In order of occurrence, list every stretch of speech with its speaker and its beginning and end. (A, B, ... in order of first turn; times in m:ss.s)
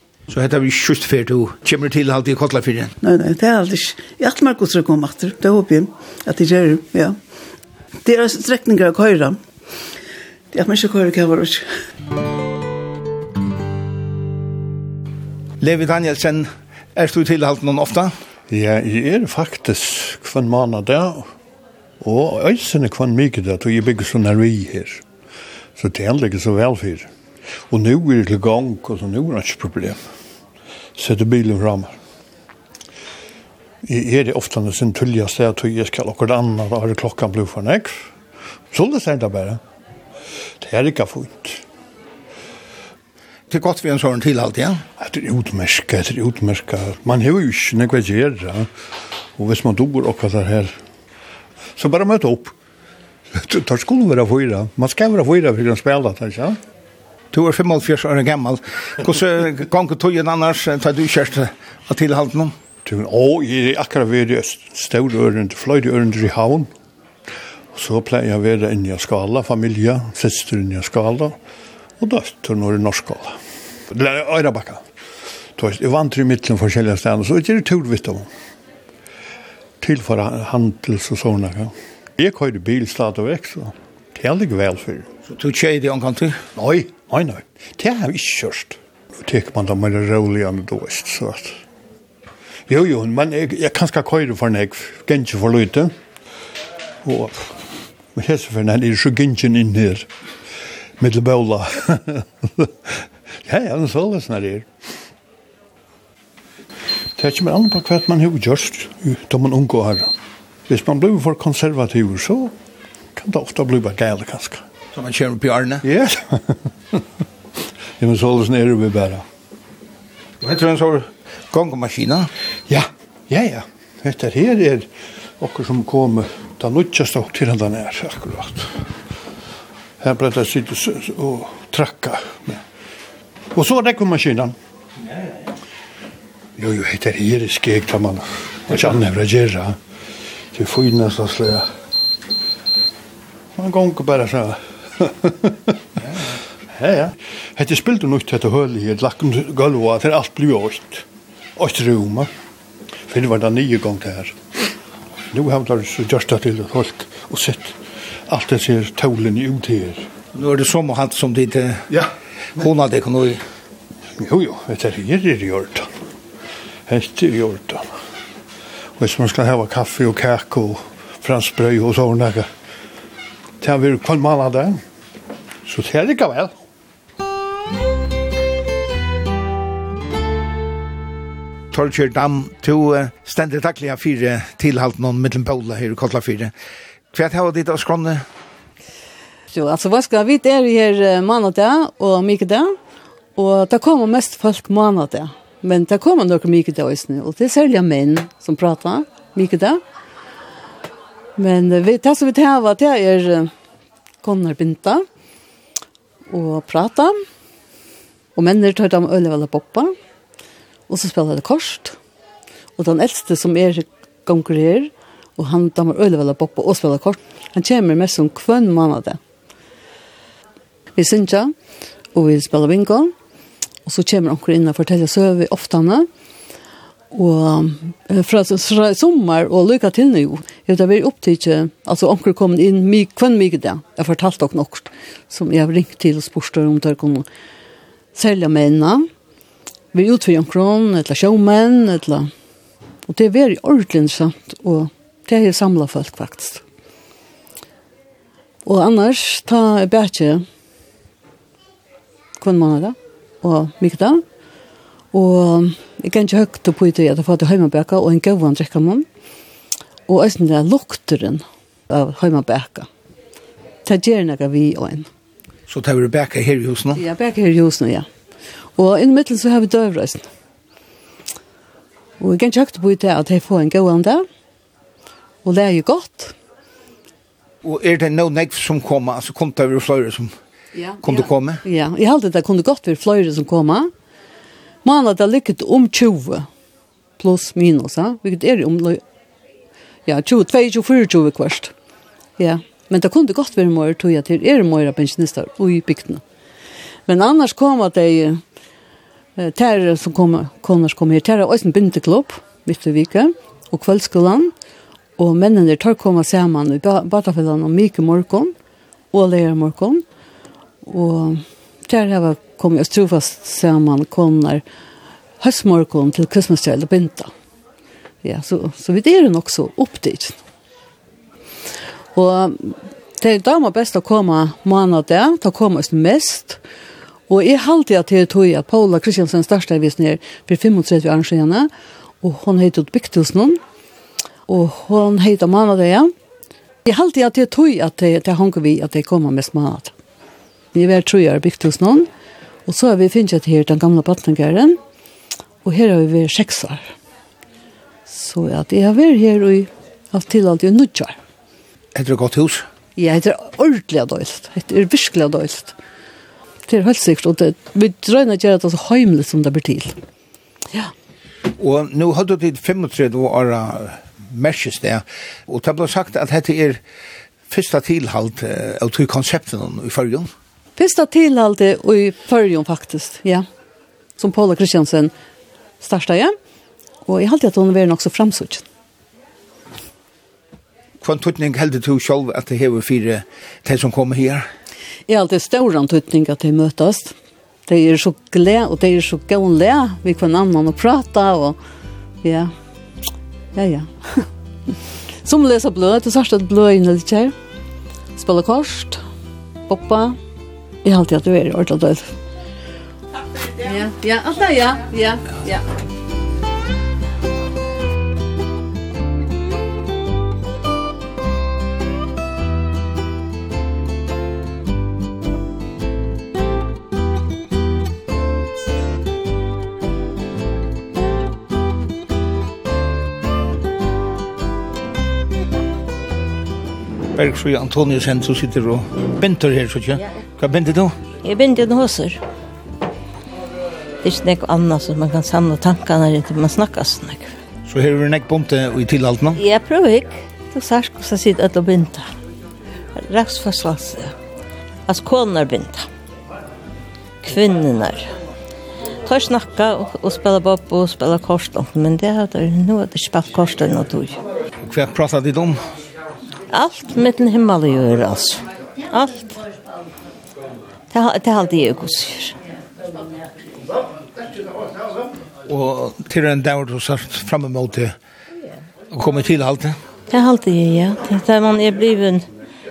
0:00.3-0:02.9 A
0:03.0-0:07.2 B
0:08.0-0:09.4 B
0:10.5-0:11.6 B
0:15.6-0:18.1 A
0:18.5-0:21.3 C
0:22.0-0:25.0 C
0:25.8-0:27.1 C
0:27.7-0:30.0 C
0:31.0-0:32.0 C
0:33.8-0:38.1 C
0:38.7-0:39.6 C
0:40.6-0:41.6 C
0:43.5-0:44.8 A
0:45.0-0:48.7 C
0:49.4-0:50.7 C
0:51.8-0:52.5 C
0:53.3-0:56.6 C
0:57.3-1:02.5 A
1:02.8-1:06.7 C
1:07.7-1:11.4 C
1:12.0-1:13.4 C
1:13.9-1:14.8 C
1:15.6-1:18.3 C
1:19.8-1:25.1 C
1:25.2-1:26.4 A
1:26.6-1:31.6 C
1:32.7-1:36.0 C
1:37.0-1:40.1 C
1:41.0-1:44.7 C
1:47.2-1:50.1 C
1:50.7-1:52.5 C
1:53.1-1:54.6 C
1:54.9-1:55.8 A
1:55.8-1:57.0 C
1:58.0-1:59.2 C
2:00.4-2:02.3 A
2:02.7-2:04.9 C
2:05.4-2:08.8 C
2:10.0-2:12.6 C
2:13.5-2:14.6 C
2:16.6-2:19.8 C
2:20.5-2:21.7 C
2:23.6-2:25.8 C
2:26.7-2:31.0 C
2:31.6-2:32.3 C
2:33.1-2:34.4 C
2:35.3-2:37.8 C
2:38.3-2:40.0 C
2:40.3-2:41.9 A
2:42.6-2:43.4 A
2:44.2-2:45.9 C
2:46.9-2:48.0 C
2:49.0-2:52.5 C
2:53.6-2:54.8 C
2:55.6-2:56.5 C
3:01.7-3:06.5 A
3:07.1-3:08.2 A
3:09.5-3:12.8 D
3:13.4-3:19.8 D
3:21.4-3:23.5 D
3:24.2-3:25.1 D
3:26.3-3:27.2 D
3:28.4-3:29.9 D
3:30.9-3:32.0 D
3:32.8-3:39.2 D
3:41.0-3:41.5 D
3:42.1-3:43.1 D
3:43.8-3:46.1 D
3:47.1-3:57.3 D
3:58.1-3:59.1 D
3:59.9-4:02.3 D
4:03.1-4:06.6 D
4:08.6-4:10.4 D
4:12.4-4:14.2 D
4:15.1-4:19.0 D
4:20.1-4:22.9 D
4:23.8-4:25.1 D
4:25.7-4:27.0 A
4:27.0-4:28.1 D
4:28.8-4:30.2 D
4:32.2-4:34.2 D
4:35.4-4:36.4 D
4:37.6-4:40.3 A
4:40.8-4:43.9 D
4:41.0-4:41.6 A
4:44.8-4:46.5 D
4:47.2-4:49.0 D
4:50.1-4:51.7 D
4:52.4-4:56.2 D
4:57.1-4:58.4 D
4:59.4-5:04.5 D
5:05.2-5:08.5 D
5:09.1-5:10.0 D
5:10.8-5:14.6 D
5:15.4-5:17.3 D
5:18.2-5:20.4 D
5:22.1-5:26.6 D
5:27.3-5:31.7 D
5:32.2-5:33.6 D
5:34.5-5:36.1 D
5:36.8-5:39.9 D
5:40.7-5:42.1 D
5:42.6-5:44.8 D
5:45.6-5:46.9 D
5:48.1-5:51.2 D
5:52.0-5:52.6 A
5:53.0-5:55.8 D
5:56.7-6:00.0 D
6:01.6-6:06.8 A
6:07.5-6:10.3 A
6:10.8-6:13.5 D
6:14.2-6:15.1 D
6:15.8-6:16.4 D
6:17.1-6:18.6 D
6:21.0-6:24.5 A
6:25.1-6:27.1 D
6:27.7-6:31.6 D
6:32.2-6:32.5 D
6:33.6-6:34.3 D
6:35.2-6:37.3 D
6:38.2-6:39.0 D
6:39.7-6:40.2 D
6:40.8-6:42.1 D
6:43.6-6:45.6 D
7:07.1-7:11.0 A
7:11.2-7:12.2 E
7:14.0-7:17.3 E
7:17.7-7:19.4 A
7:19.4-7:22.1 E
7:23.0-7:24.1 E
7:24.9-7:25.9 E
7:27.2-7:28.1 E
7:29.0-7:34.2 E
7:34.6-7:35.6 A
7:36.5-7:39.4 E
7:40.9-7:42.4 E
7:45.5-7:47.9 A
7:48.9-7:49.8 A
7:50.1-7:52.2 E